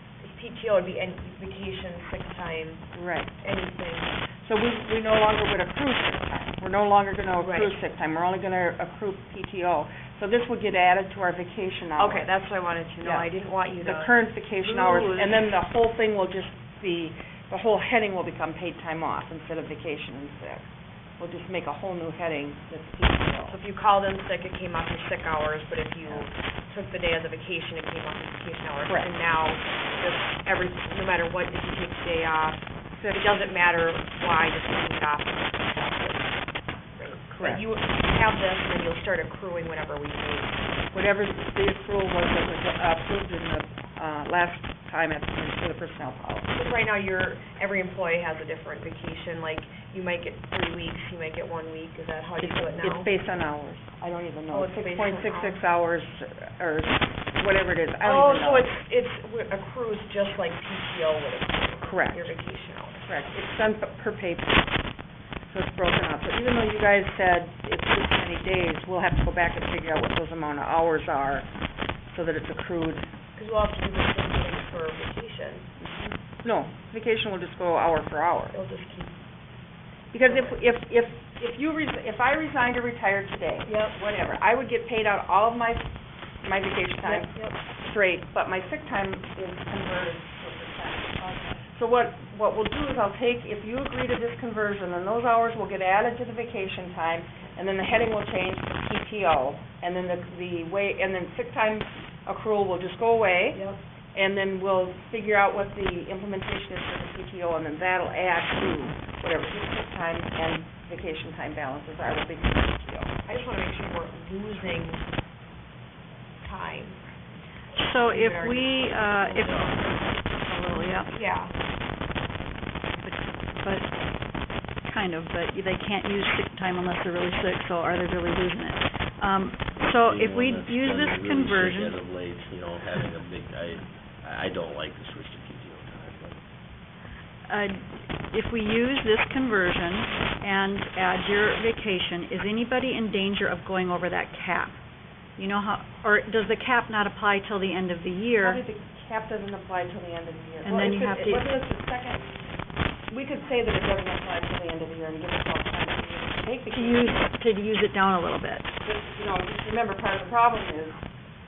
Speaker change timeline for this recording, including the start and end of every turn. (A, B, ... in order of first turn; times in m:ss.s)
0:00.2-0:04.2 A
0:02.9-0:03.4 B
0:04.4-0:12.3 B
0:07.4-0:07.7 A
0:12.0-0:15.4 A
0:13.0-0:13.3 B
0:13.8-0:20.6 B
0:21.2-0:23.6 B
0:23.5-0:36.4 A
0:26.0-0:26.3 B
0:28.9-0:29.1 B
0:32.9-0:33.2 B
0:37.0-0:40.6 A
0:37.2-0:37.6 B
0:40.9-0:46.6 B
0:46.5-0:53.1 A
0:52.4-0:58.7 B
0:54.5-0:55.6 A
0:58.0-1:03.1 A
1:01.8-1:02.3 B
1:03.0-1:04.7 B
1:05.5-1:11.5 B
1:12.1-1:13.1 B
1:13.4-1:15.7 A
1:15.8-1:18.6 B
1:18.5-1:19.2 A
1:20.1-1:25.9 B
1:20.2-1:20.6 A
1:23.7-1:24.0 A
1:26.4-1:43.6 B
1:27.0-1:27.6 A
1:31.2-1:31.6 A
1:43.5-1:43.8 A
1:44.1-1:53.1 B
1:53.3-1:55.1 A
1:56.4-1:57.0 A
1:57.8-1:59.7 C
1:57.9-1:58.9 A
1:59.2-1:59.9 D
2:00.3-2:01.1 C
2:01.1-2:01.6 A
2:03.0-2:03.9 C
2:04.8-2:12.0 C
2:09.8-2:16.4 D
2:17.5-2:24.8 C
2:25.4-2:28.6 C
2:28.4-2:32.3 B
2:30.6-2:31.5 C
2:33.1-2:37.3 B
2:36.7-2:38.7 C
2:38.8-2:41.0 B